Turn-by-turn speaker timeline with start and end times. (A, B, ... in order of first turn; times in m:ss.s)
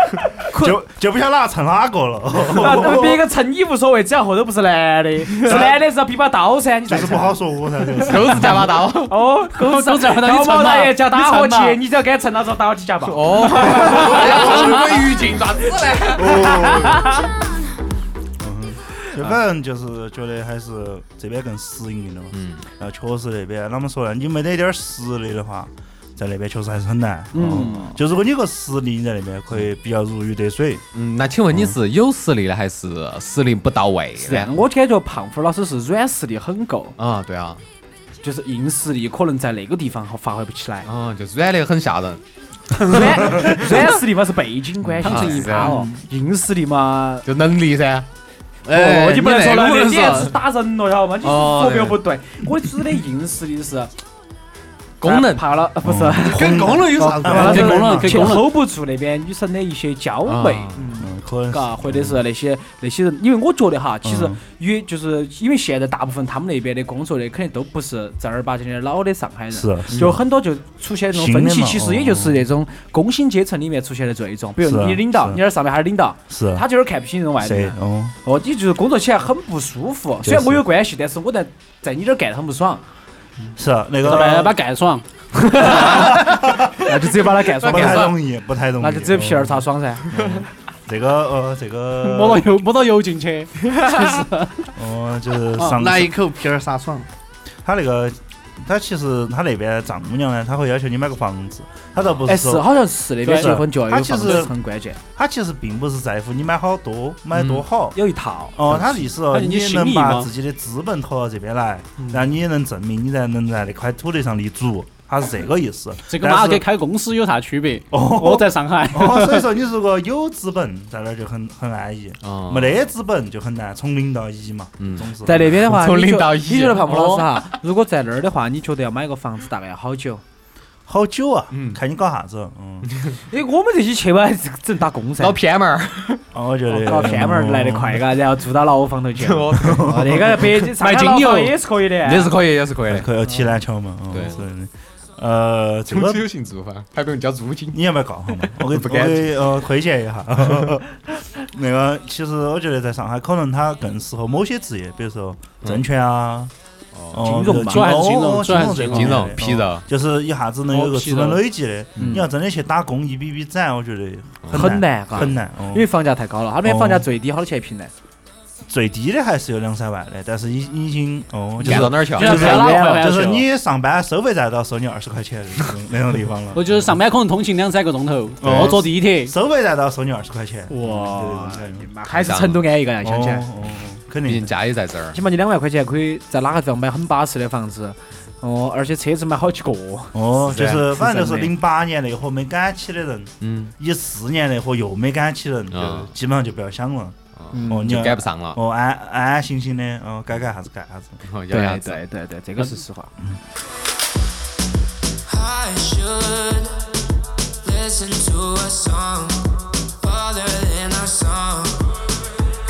0:00.2-0:00.8 A
0:00.5-0:03.2 B
0:02.5-0:07.4 A
0:05.5-0:05.7 B
0:06.9-0:08.7 B
0:08.0-0:09.2 C
0:09.1-0:14.8 A
0:09.5-0:11.8 D
0:13.0-0:16.7 C
0:16.1-0:17.2 B
0:16.7-0:17.2 A
0:18.4-0:30.8 B
0:22.3-0:22.6 C
0:27.3-0:28.0 A
0:30.9-0:34.5 C
0:31.5-0:31.8 B
0:34.2-0:36.9 A
0:37.0-0:37.6 C
0:38.2-0:40.9 A
0:40.8-0:42.2 C
0:42.7-0:44.0 C
0:42.8-0:47.2 A
0:45.0-0:45.9 D
0:45.0-0:45.8 C
0:47.2-0:48.1 C
0:48.6-0:50.4 E
0:48.7-0:53.9 A
0:48.8-0:50.3 C
0:51.2-0:52.0 C
0:55.0-0:55.5 C
0:55.0-1:22.8 A
0:55.8-0:58.4 B
0:56.3-0:58.0 E
0:57.2-0:58.5 D
1:00.2-1:00.8 C
1:01.0-1:02.2 B
1:04.0-1:04.4 B
1:09.5-1:10.2 B
1:11.1-1:12.4 B
1:14.6-1:15.4 B
1:16.3-1:16.6 B
1:17.4-1:18.2 B
1:20.2-1:20.6 B
1:23.6-1:24.5 B
1:24.0-1:26.1 D
1:25.6-1:28.1 A
1:27.6-1:32.4 B
1:27.6-1:28.1 C
1:28.8-1:30.3 A
1:32.0-1:34.7 D
1:34.8-1:36.1 B
1:35.8-1:37.1 E
1:37.6-1:42.7 B
1:42.3-1:45.0 A
1:43.2-1:43.5 D
1:43.3-1:44.5 B
1:45.2-1:48.0 B
1:47.9-1:49.1 A
1:48.5-1:56.6 B
1:49.3-1:50.3 D
1:52.0-1:52.2 A
1:56.1-1:59.4 D
1:57.9-2:05.5 B
2:02.2-2:02.8 C
2:04.8-2:07.4 C
2:05.2-2:10.2 A
2:10.9-2:12.9 B
2:11.5-2:11.8 C
2:12.9-2:13.2 C
2:13.3-2:15.4 A
2:15.2-2:16.2 C
2:16.3-2:18.1 B
2:16.7-2:22.3 A
2:19.2-2:21.3 C
2:19.6-2:20.4 B
2:20.8-2:21.5 D
2:22.0-2:23.1 C
2:22.9-2:26.2 B
2:23.2-2:23.5 A
2:24.1-2:24.4 C
2:25.9-2:29.4 C
2:27.7-2:36.5 B
2:36.9-2:37.2 C
2:37.1-2:45.9 B
2:37.2-2:38.1 A
2:37.6-2:39.2 D
2:38.9-2:39.8 C
2:40.7-2:41.4 D
2:42.0-2:42.3 A
2:44.4-2:45.3 C
2:44.5-2:47.9 A
2:46.6-2:47.1 B
2:48.7-2:56.9 B
2:51.6-2:52.9 C
2:52.0-2:53.5 D
2:52.2-2:53.1 A
2:56.5-2:59.3 D
2:58.4-3:01.9 B
2:58.4-2:58.8 C
3:00.7-3:03.5 A
3:02.1-3:02.6 C
3:03.0-3:04.5 B
3:04.2-3:05.2 C
3:05.1-3:10.2 A
3:10.1-3:21.2 B
3:10.4-3:10.8 C
3:10.9-3:11.5 A
3:13.4-3:13.7 C
3:15.7-3:16.1 C
3:17.4-3:18.6 C
3:17.5-3:17.9 A
3:21.2-3:22.0 C
3:21.5-3:23.1 A
3:25.2-3:27.0 F
3:27.6-3:32.0 F